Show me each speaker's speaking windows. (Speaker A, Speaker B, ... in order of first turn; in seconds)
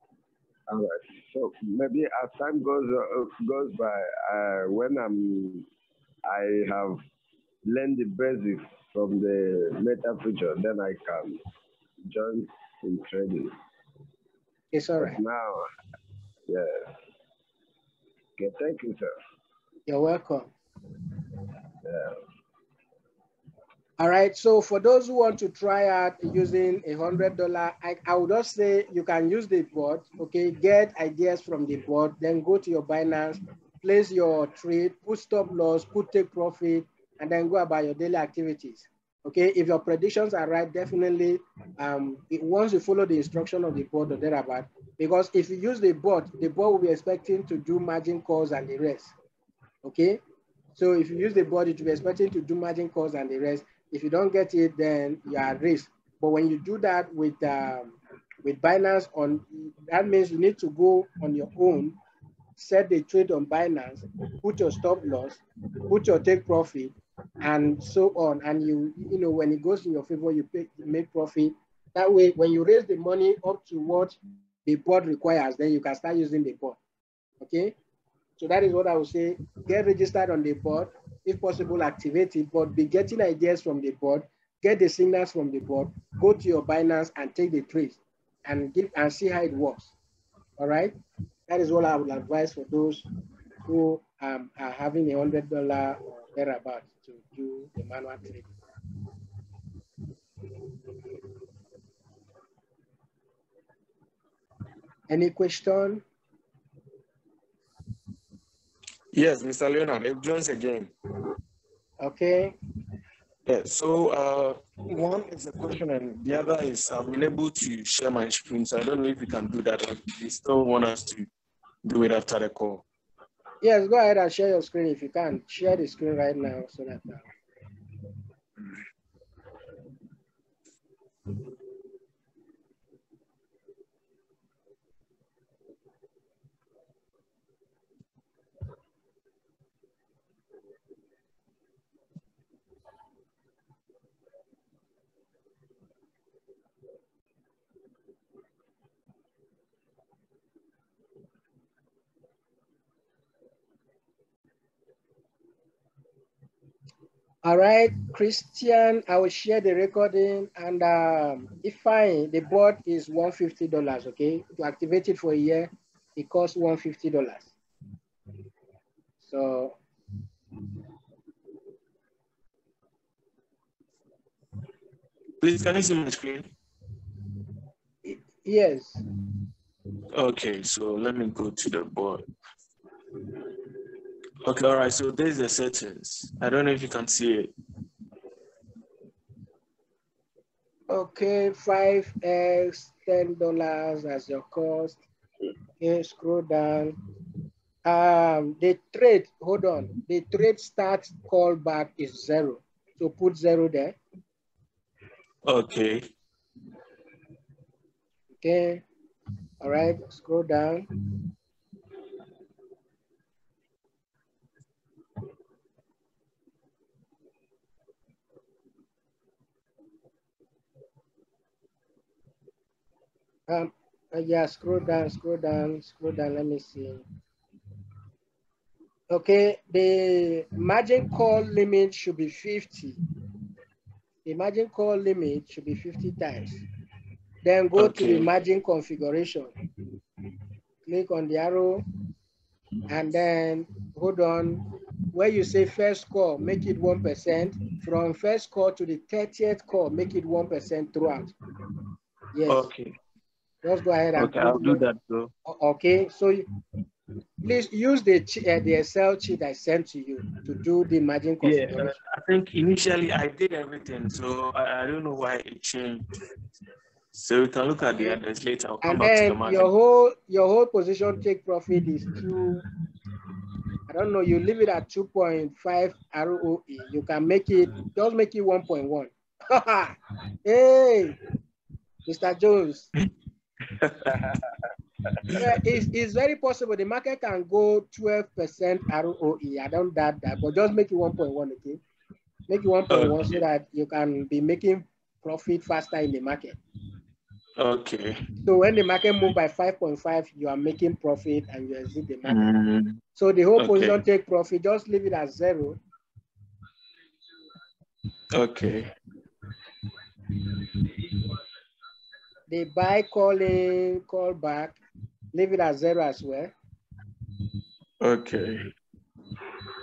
Speaker A: 0.7-5.7, 6.3-7.0, 7.7-11.4, 12.1-13.5, 15.0-15.7, 16.5-16.9, 18.4-19.2, 21.9-22.2
Speaker B: 14.7-15.2, 19.9-20.5, 24.0-49.1, 49.8-50.2, 50.8-62.0, 62.6-76.8, 77.4-77.8, 78.4-89.9, 90.6-91.0, 91.5-93.1, 93.7-98.5, 105.1-106.0, 112.0-112.5, 123.6-127.3, 157.4-167.5, 169.2-169.8, 178.1-179.0, 190.9-195.0, 195.8-197.0, 197.8-204.0, 208.4-208.8, 209.6-210.9, 223.5-227.0, 229.1-233.0, 234.2-236.6, 237.4-239.5, 240.8-241.8, 242.9-251.3, 252.3-252.7, 253.6-254.8, 255.5-256.5, 257.4-262.0, 268.8-272.6, 273.9-281.2, 282.1-282.9, 285.3-291.8, 292.5-296.6, 298.4-302.4, 303.2-305.8, 312.5-314.8, 315.3-316.5
Speaker C: 109.1-110.9, 113.5-121.3, 121.8-122.8, 175.4-176.4, 180.1-182.2, 184.4-187.5, 205.4-206.0, 237.8-238.3, 252.5-252.9, 254.2-255.3, 261.4-266.1, 267.1-269.7, 283.8-284.2, 292.9-293.3, 297.6-298.2, 302.3-303.0, 303.6-304.0, 308.3-308.9, 318.0-318.6